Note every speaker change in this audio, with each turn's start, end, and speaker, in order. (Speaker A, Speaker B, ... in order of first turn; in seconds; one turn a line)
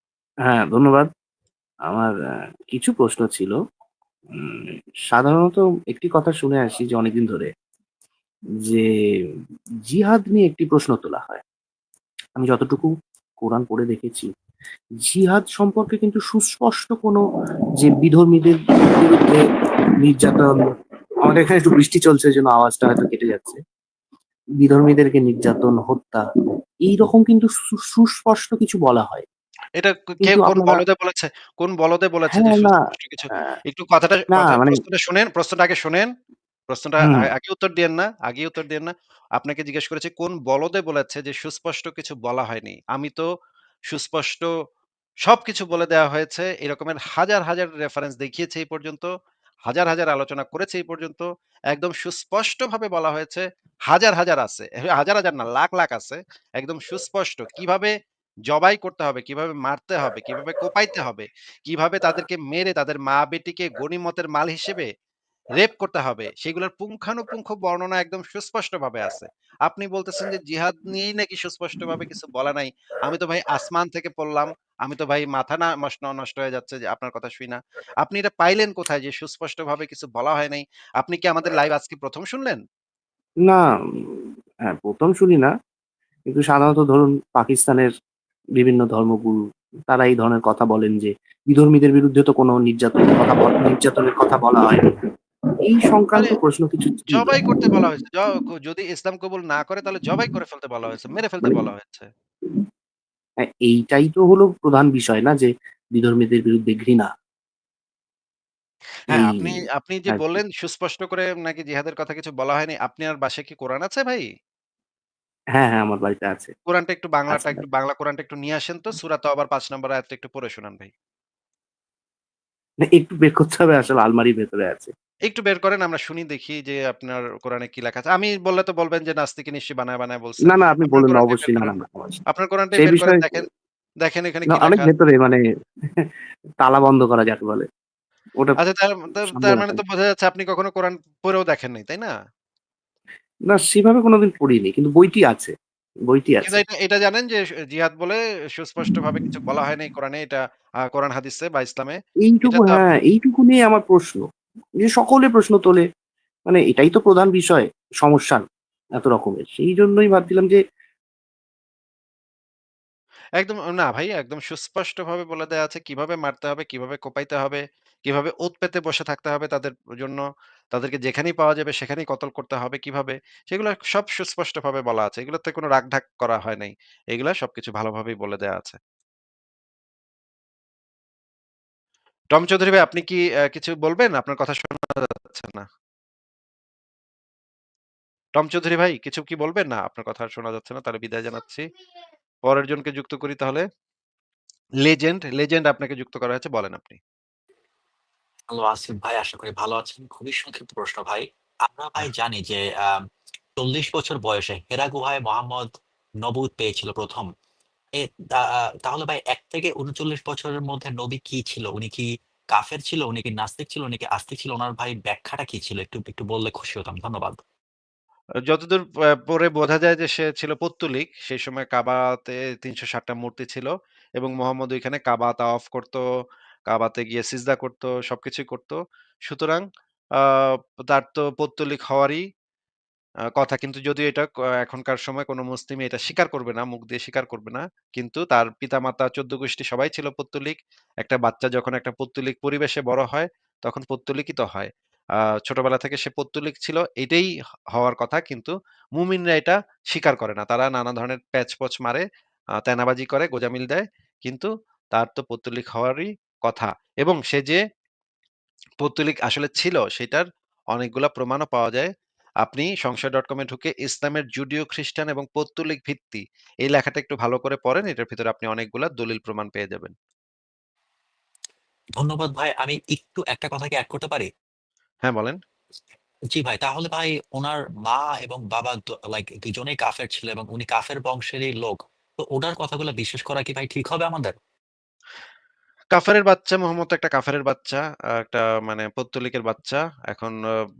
Speaker A: 0.5-1.1
Speaker A: 2.7-3.5
Speaker A: 4.4-7.5
Speaker A: 9.9-11.4
Speaker A: 12.4-14.3
Speaker A: 15.0-17.2
Speaker A: 17.8-19.4
Speaker A: 20.0-20.6
Speaker A: 21.2-23.6
Speaker A: 24.6-26.2
Speaker A: 26.9-29.3
Speaker B: 29.8-36.1
Speaker A: 30.3-30.8
Speaker A: 32.3-32.8
Speaker A: 34.3-34.8
Speaker B: 36.7-43.2
Speaker B: 43.9-44.5
Speaker B: 45.2-49.1
Speaker B: 49.7-57.9
Speaker B: 58.5-64.9
Speaker B: 65.6-82.6
Speaker A: 83.5-85.5
Speaker A: 86.3-87.9
Speaker A: 88.6-94.8
Speaker A: 95.7-97.4
Speaker B: 97.1-102.1
Speaker A: 103.5-107.1
Speaker B: 109.1-114.3
Speaker A: 109.1-109.5
Speaker A: 110.1-110.4
Speaker A: 115.5-116.5
Speaker B: 116.7-120.9
Speaker A: 117.3-117.6
Speaker A: 122.8-124.9
Speaker B: 125.3-131.8
Speaker A: 130.5-132.2
Speaker B: 132.3-133.4
Speaker A: 132.8-133.4
Speaker B: 134.0-134.9
Speaker A: 134.5-135.4
Speaker A: 136.6-137.7
Speaker B: 138.6-142.1
Speaker A: 139.3-139.8
Speaker A: 143.5-145.5
Speaker A: 146.1-146.6
Speaker B: 146.4-152.8
Speaker A: 152.3-154.2
Speaker A: 154.8-155.8
Speaker A: 156.5-158.4
Speaker A: 159.0-160.6
Speaker B: 163.4-178.8
Speaker B: 182.3-185.7
Speaker B: 188.4-191.6
Speaker B: 192.5-193.6
Speaker B: 194.8-197.0
Speaker C: 198.5-203.0
Speaker C: 203.6-205.7
Speaker C: 206.2-207.3
Speaker C: 208.0-217.4
Speaker B: 218.5-226.0
Speaker B: 226.7-229.7
Speaker B: 230.2-232.2
Speaker B: 233.4-244.7
Speaker B: 245.5-252.0
Speaker B: 252.6-257.6
Speaker B: 258.8-261.9
Speaker B: 262.4-269.9
Speaker C: 272.0-274.3
Speaker B: 275.1-275.4
Speaker C: 276.3-284.3
Speaker B: 285.9-290.4